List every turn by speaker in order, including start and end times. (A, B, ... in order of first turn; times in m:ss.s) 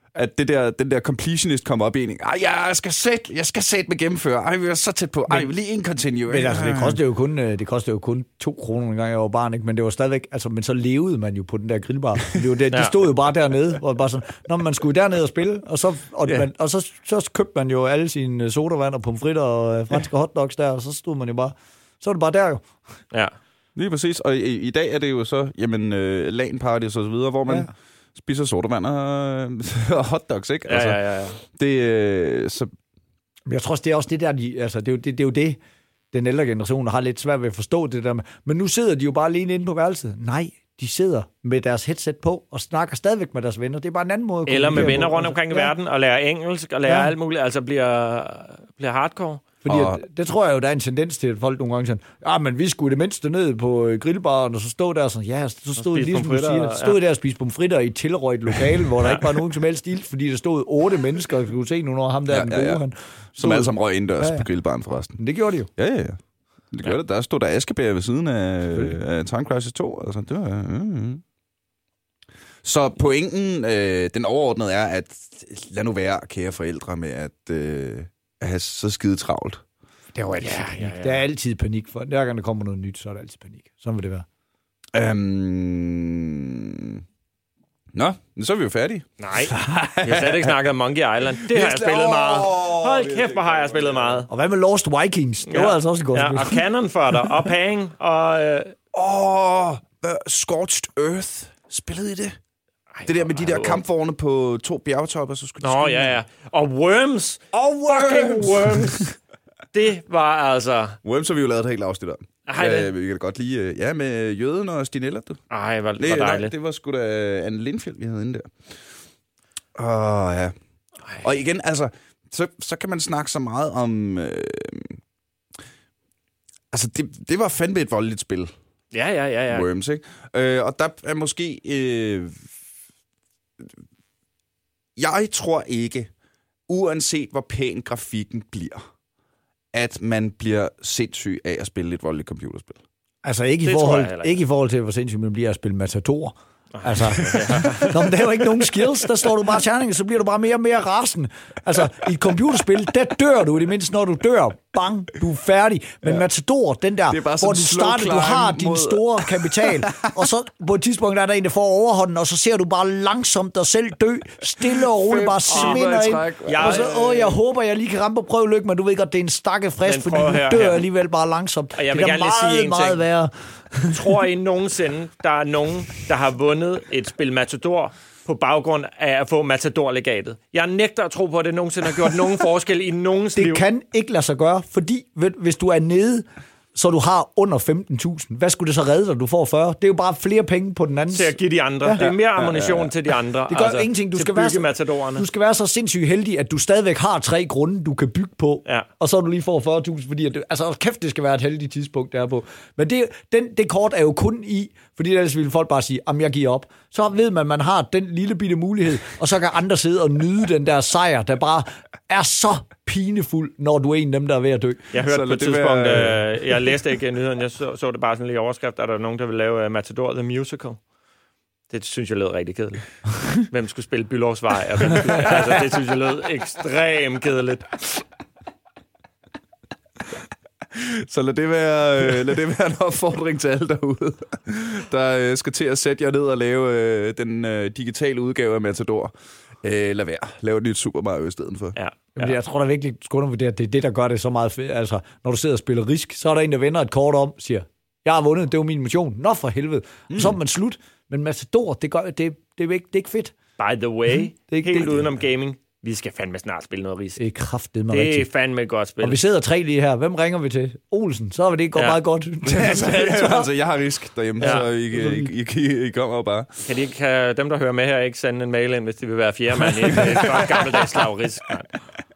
0:00.1-0:07.0 A
0:06.3-0:22.7 B
0:23.8-0:32.7 A
0:30.7-0:31.4 C
0:33.5-0:35.6 B
0:36.1-0:45.7 B
0:44.5-0:49.4 C
0:46.9-0:47.1 B
0:49.6-1:04.4 B
0:49.7-0:50.0 A
0:55.8-0:57.0 C
0:59.0-0:59.2 C
1:02.3-1:02.8 A
1:03.4-1:05.2 A
1:05.2-1:05.7 B
1:05.8-1:06.2 A
1:06.7-1:11.2 A
1:12.6-1:19.6 A
1:20.1-1:24.2 B
1:20.4-1:21.2 C
1:24.9-1:27.0 A
1:27.9-1:30.5 A
1:29.2-1:34.3 C
1:31.4-1:34.2 A
1:34.3-1:36.6 B
1:35.5-1:38.7 C
1:38.9-1:42.4 A
1:42.9-1:43.8 C
1:43.0-1:46.1 A
1:45.6-1:49.1 C
1:47.5-1:48.9 A
1:49.7-1:51.0 C
1:51.0-1:55.4 A
1:52.4-1:52.9 C
1:55.5-1:56.5 C
1:56.0-1:58.5 A
1:59.8-2:00.5 A
2:01.2-2:05.0 A
2:06.7-2:08.5 A
2:08.9-2:09.7 C
2:09.5-2:12.5 A
2:15.0-2:16.1 A
2:16.7-2:18.8 A
2:19.7-2:22.8 A
2:23.2-2:54.0 B
2:23.6-2:24.4 C
2:26.7-2:28.0 C
2:37.1-2:40.1 A
2:44.9-2:47.0 A
2:45.5-2:45.8 C
2:46.4-2:47.3 C
2:49.8-2:50.8 C
2:51.7-2:53.0 C
2:53.9-3:03.6 C
3:03.4-3:12.1 B
3:11.1-3:15.2 C
3:12.0-3:12.9 A
3:13.5-3:34.9 B
3:34.9-3:40.8 C
3:35.0-3:36.2 A
3:41.7-3:47.8 C
3:50.7-3:59.1 A
3:59.6-4:01.8 A
4:01.7-4:02.3 C
4:02.2-4:13.3 B
4:10.1-4:10.4 A
4:13.6-4:17.2 C
4:14.5-4:15.0 B
4:17.2-4:18.3 B
4:17.9-4:19.2 C
4:19.0-4:23.5 B
4:22.4-4:26.6 A
4:24.4-4:25.3 B
4:24.4-4:24.6 C
4:26.6-4:31.7 C